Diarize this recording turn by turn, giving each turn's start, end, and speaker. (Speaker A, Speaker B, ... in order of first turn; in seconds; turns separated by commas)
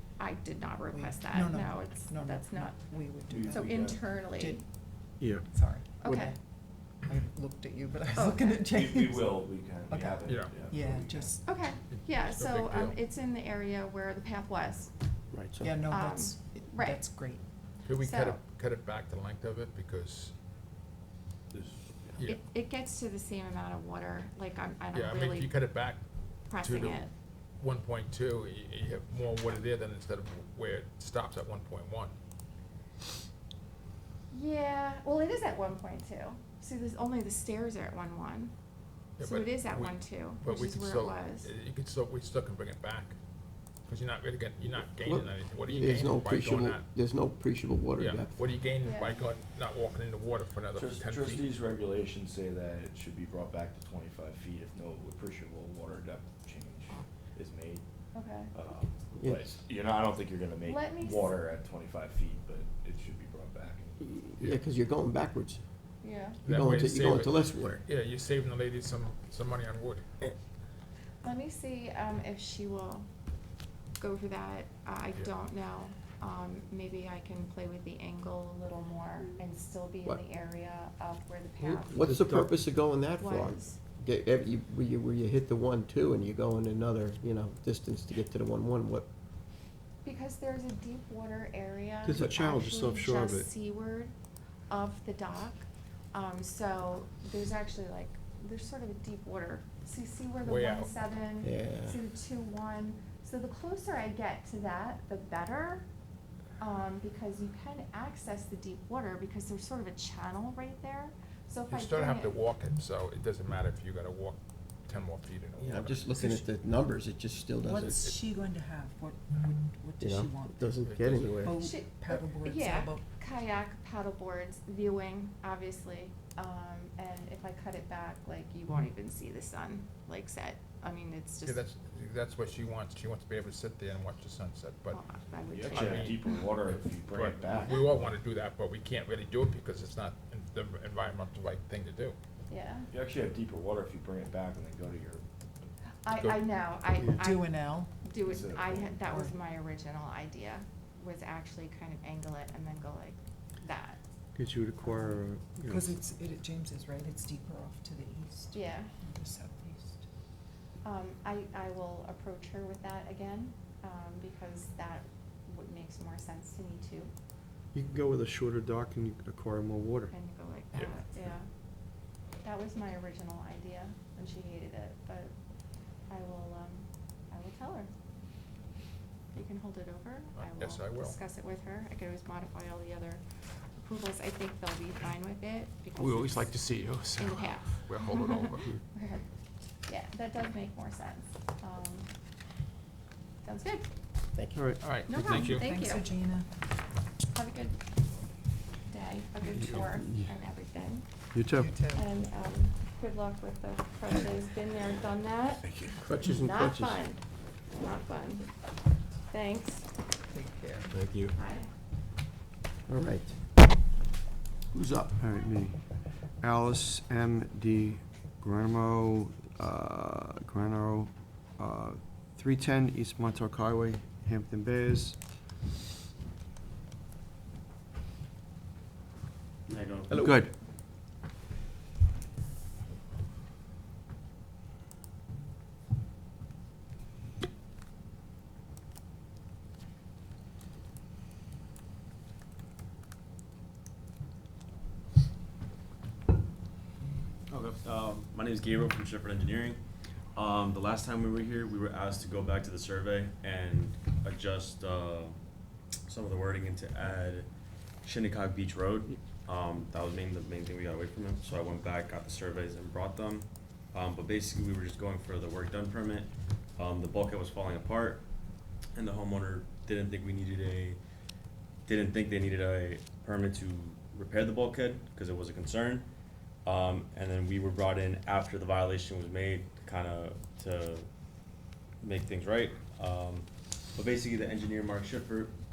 Speaker A: 0.2-4.6, Speaker B: 0.9-4.7, Speaker C: 3.3-4.1, Speaker B: 5.4-11.5, Speaker A: 6.0-6.3, Speaker A: 8.1-8.7, Speaker C: 8.7-11.3, Speaker D: 10.2-11.1, Speaker A: 11.4-14.9, Speaker D: 11.8-13.0, Speaker B: 15.6-17.4, Speaker A: 15.8-17.2, Speaker A: 17.9-18.4, Speaker D: 17.9-20.3, Speaker C: 21.5-21.8, Speaker A: 22.2-25.6, Speaker D: 24.9-26.0, Speaker A: 26.5-27.1, Speaker D: 26.6-27.1, Speaker D: 27.6-32.1, Speaker A: 34.3-38.5, Speaker D: 39.2-43.1, Speaker A: 39.2-41.5, Speaker D: 43.9-46.8, Speaker E: 45.0-48.4, Speaker D: 48.0-51.4, Speaker A: 48.8-49.2, Speaker C: 50.7-57.8, Speaker A: 58.1-58.5, Speaker C: 58.5-64.2, Speaker E: 59.2-59.4, Speaker A: 60.6-61.4, Speaker E: 64.0-65.6, Speaker A: 66.0-66.4, Speaker D: 66.4-70.0, Speaker E: 66.4-67.8, Speaker A: 71.2-73.1, Speaker A: 74.0-82.0, Speaker E: 81.9-89.1, Speaker F: 82.0-82.5, Speaker A: 83.2-83.8, Speaker A: 90.0-94.1, Speaker F: 92.0-93.5, Speaker A: 94.7-105.8, Speaker D: 100.4-100.9, Speaker E: 101.4-102.0, Speaker A: 106.6-112.4, Speaker D: 111.7-116.3, Speaker E: 115.6-118.0, Speaker B: 117.6-120.8, Speaker D: 117.9-118.2, Speaker E: 120.0-121.6, Speaker D: 120.8-121.5, Speaker B: 121.4-123.0, Speaker A: 121.5-131.6, Speaker D: 131.4-135.0, Speaker A: 134.9-136.5, Speaker C: 135.5-138.2, Speaker D: 135.7-136.4, Speaker D: 137.1-142.2, Speaker A: 142.5-142.9, Speaker C: 142.9-145.2, Speaker A: 146.0-154.0, Speaker D: 146.1-146.4, Speaker B: 147.2-148.5, Speaker C: 148.2-149.0, Speaker B: 149.0-149.3, Speaker F: 154.3-155.8, Speaker B: 154.8-160.1, Speaker A: 158.5-158.9, Speaker A: 160.8-167.1, Speaker F: 167.7-170.1, Speaker A: 170.1-171.5, Speaker D: 170.7-171.1, Speaker A: 172.4-175.3, Speaker A: 176.1-177.9, Speaker A: 179.3-183.2, Speaker D: 180.3-181.2, Speaker A: 183.8-186.5, Speaker D: 186.0-188.7, Speaker A: 187.2-189.2, Speaker A: 189.8-192.1, Speaker A: 193.4-193.8, Speaker E: 194.3-194.6, Speaker F: 194.5-195.2, Speaker D: 194.8-195.7, Speaker A: 195.1-196.1, Speaker B: 195.3-196.5, Speaker A: 197.3-197.8, Speaker A: 198.9-201.1, Speaker F: 201.3-201.7, Speaker B: 201.6-202.1, Speaker A: 201.9-205.7, Speaker E: 206.0-207.0, Speaker A: 206.2-208.5, Speaker A: 209.3-209.9, Speaker B: 210.3-210.9, Speaker G: 210.9-211.3, Speaker A: 211.3-211.7, Speaker E: 212.9-213.3, Speaker E: 214.7-215.1, Speaker F: 215.2-225.2, Speaker G: 229.7-230.2, Speaker E: 230.1-230.4, Speaker F: 230.2-230.5, Speaker G: 247.5-249.8, Speaker G: 250.3-255.3, Speaker G: 256.1-257.5, Speaker G: 258.0-268.3, Speaker G: 268.9-271.0, Speaker G: 271.9-276.1, Speaker G: 276.6-281.1, Speaker G: 282.0-285.5